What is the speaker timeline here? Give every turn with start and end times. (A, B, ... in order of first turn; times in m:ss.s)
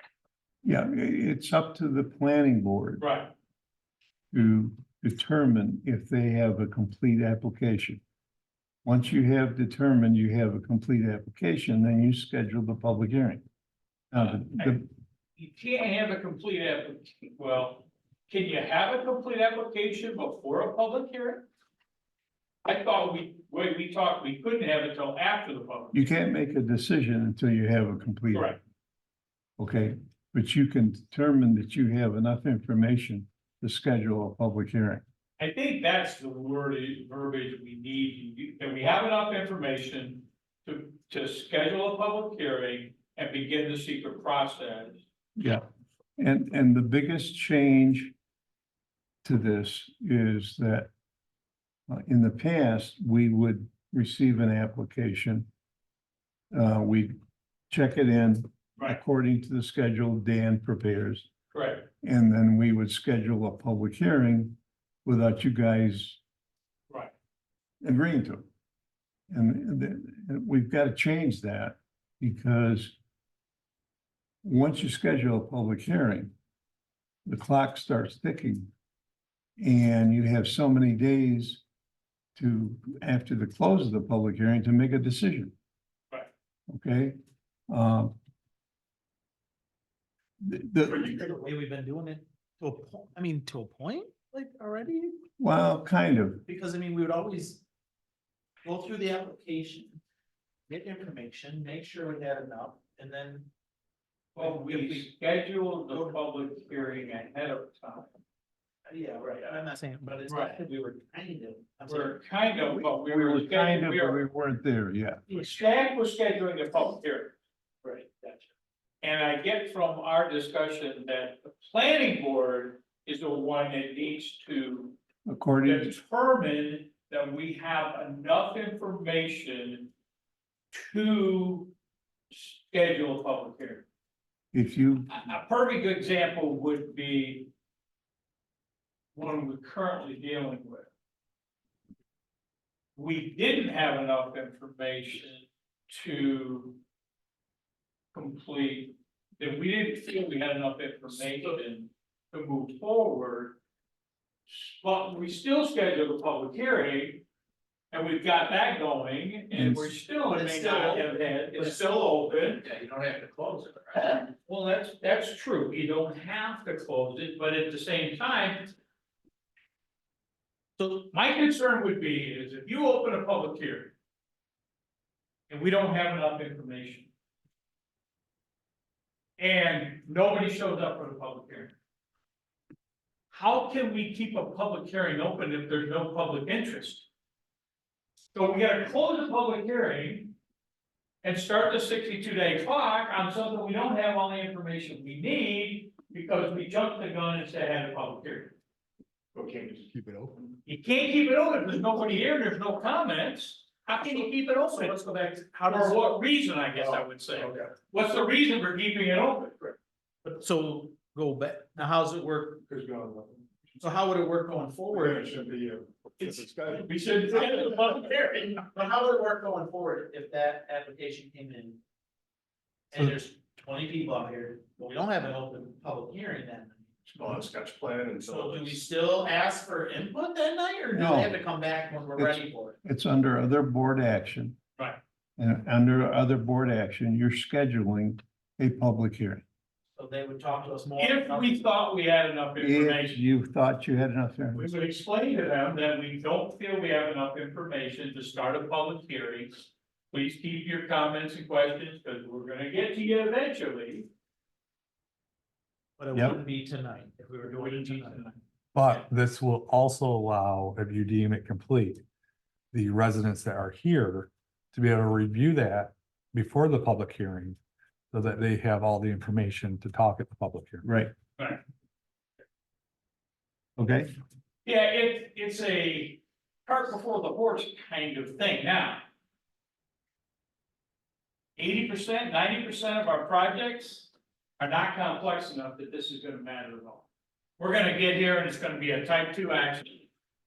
0:00.6-0:03.0 A
0:03.0-0:03.3 B
0:04.3-0:08.0 A
0:08.8-0:13.4 A
0:14.1-0:14.8 A
0:14.1-0:21.4 B
0:22.6-0:26.1 B
0:25.9-0:28.5 A
0:28.3-0:28.6 B
0:29.6-0:35.0 A
0:35.4-0:45.0 B
0:45.4-0:45.6 A
0:46.2-0:48.1 A
0:49.2-0:50.9 A
0:51.9-0:55.5 A
0:56.5-0:57.1 A
0:57.7-1:01.3 A
1:01.5-1:01.8 B
1:02.0-1:06.2 A
1:07.8-1:08.5 A
1:09.3-1:13.0 A
1:14.4-1:16.3 A
1:17.2-1:18.7 A
1:19.6-1:21.6 A
1:22.4-1:25.5 A
1:26.7-1:27.2 A
1:27.7-1:28.1 A
1:30.4-1:31.3 A
1:31.0-1:35.2 C
1:35.4-1:36.4 A
1:36.4-1:37.6 C
1:38.6-1:40.0 C
1:40.7-1:43.5 C
1:44.3-1:45.1 C
1:44.4-1:48.2 B
1:45.9-1:46.2 C
1:48.8-1:52.2 C
1:49.2-1:49.6 B
1:50.3-1:50.6 B
1:51.9-1:54.2 B
1:52.6-1:55.2 A
1:55.3-1:55.7 C
1:55.3-1:57.4 B
1:57.8-1:58.3 C
1:59.0-2:05.0 B
2:05.2-2:05.9 A
2:05.6-2:09.9 B
2:10.7-2:11.7 B
2:12.3-2:13.8 B
2:14.5-2:15.1 A
2:15.1-2:17.5 B
2:19.1-2:20.9 B
2:23.0-2:26.8 B
2:28.1-2:33.6 B
2:34.5-2:37.2 B
2:37.9-2:42.6 B
2:39.5-2:40.0 A
2:40.2-2:44.2 C
2:44.0-2:48.7 B
2:50.8-2:51.0 C
2:51.1-2:53.9 B
2:55.5-2:57.1 B
2:59.4-3:01.8 B
3:03.3-3:07.1 B
3:08.3-3:10.3 B
3:11.2-3:18.6 B
3:19.4-3:20.3 D
3:20.6-3:25.1 B
3:24.4-3:26.2 C
3:25.6-3:29.8 B
3:26.8-3:27.7 D
3:30.2-3:32.6 C
3:32.7-3:33.8 D
3:33.8-3:35.3 C
3:34.9-3:37.5 D
3:36.2-3:38.6 B
3:37.3-3:41.8 C
3:42.9-3:47.4 C
3:47.1-3:48.8 D
3:48.2-3:52.8 C
3:50.9-3:51.4 A
3:52.2-3:54.6 A
3:55.4-3:59.4 A
4:00.0-4:01.6 C
4:01.0-4:03.2 B
4:02.6-4:04.7 A
4:04.5-4:14.1 B
4:16.0-4:18.2 C
4:16.1-4:16.4 A
4:17.4-4:18.4 B
4:18.7-4:22.0 E
4:22.7-4:27.6 E
4:28.1-4:30.8 E
4:30.8-4:31.1 A
4:33.8-4:34.1 A
4:34.6-4:39.0 B
4:41.6-4:47.1 B
4:47.6-4:50.0 B